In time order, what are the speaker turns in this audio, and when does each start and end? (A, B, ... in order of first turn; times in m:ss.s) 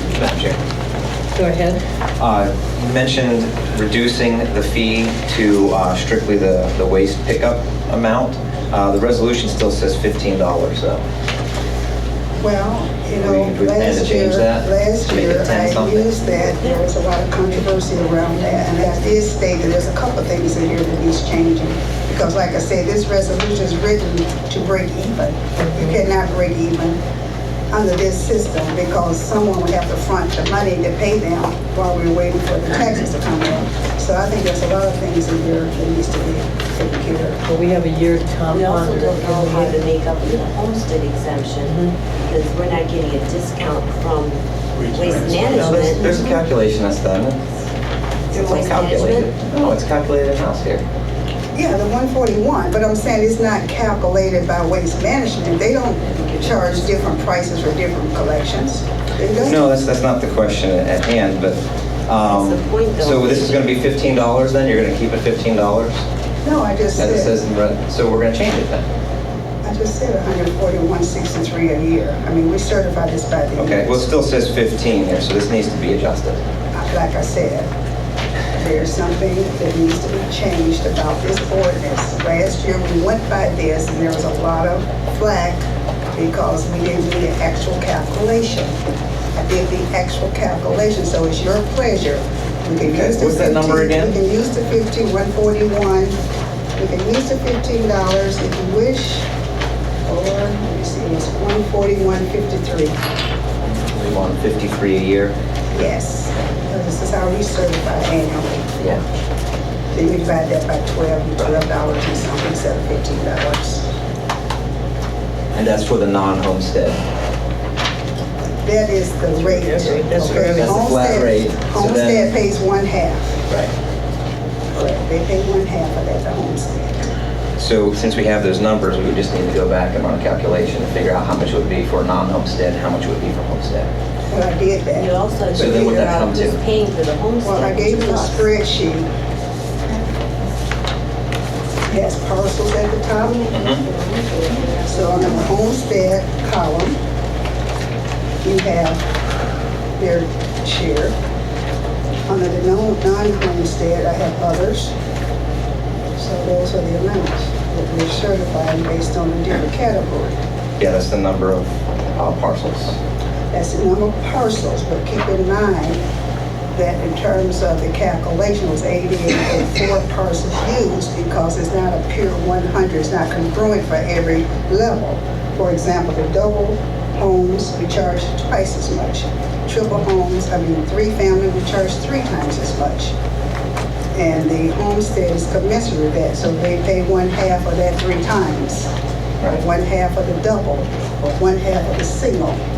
0:00.1-0:00.6 A
0:01.3-0:01.8 B
0:02.2-0:11.0 A
0:12.4-0:27.0 C
0:13.1-0:16.2 A
0:16.2-0:16.9 D
0:18.8-0:19.1 D
0:25.6-0:26.0 B
0:27.7-0:37.4 C
0:37.4-0:39.8 B
0:38.5-0:46.3 D
0:41.6-0:41.9 B
0:45.5-0:47.4 A
0:48.3-0:49.3 D
0:48.4-0:50.8 A
0:51.5-0:59.6 C
0:56.4-0:56.7 D
0:59.4-1:06.0 A
1:02.2-1:03.6 D
1:06.4-1:07.3 C
1:07.0-1:08.9 A
1:09.6-1:14.0 C
1:13.6-1:16.4 A
1:16.7-1:17.7 C
1:18.5-1:28.7 C
1:29.3-1:36.2 C
1:32.8-1:34.2 A
1:36.8-1:39.3 C
1:40.1-1:43.0 C
1:43.7-1:45.3 A
1:45.7-1:48.7 C
1:49.9-1:53.8 C
1:55.5-1:57.0 A
1:58.6-2:03.4 C
1:59.3-2:00.9 B
2:00.3-2:02.3 A
2:04.7-2:07.1 C
2:07.6-2:13.9 A
2:14.3-2:15.1 C
2:14.9-2:18.5 D
2:15.5-2:16.6 A
2:17.4-2:19.1 C
2:21.9-2:23.5 C
2:23.1-2:25.5 D
2:23.5-2:23.8 A
2:24.9-2:27.0 C
2:28.4-2:29.0 C
2:30.0-2:31.1 C
2:32.3-2:34.9 C
2:36.2-2:40.3 C
2:40.8-2:43.0 A
2:43.5-2:46.0 C
2:46.7-3:03.1 C
3:04.1-3:08.9 C
3:09.4-3:12.6 C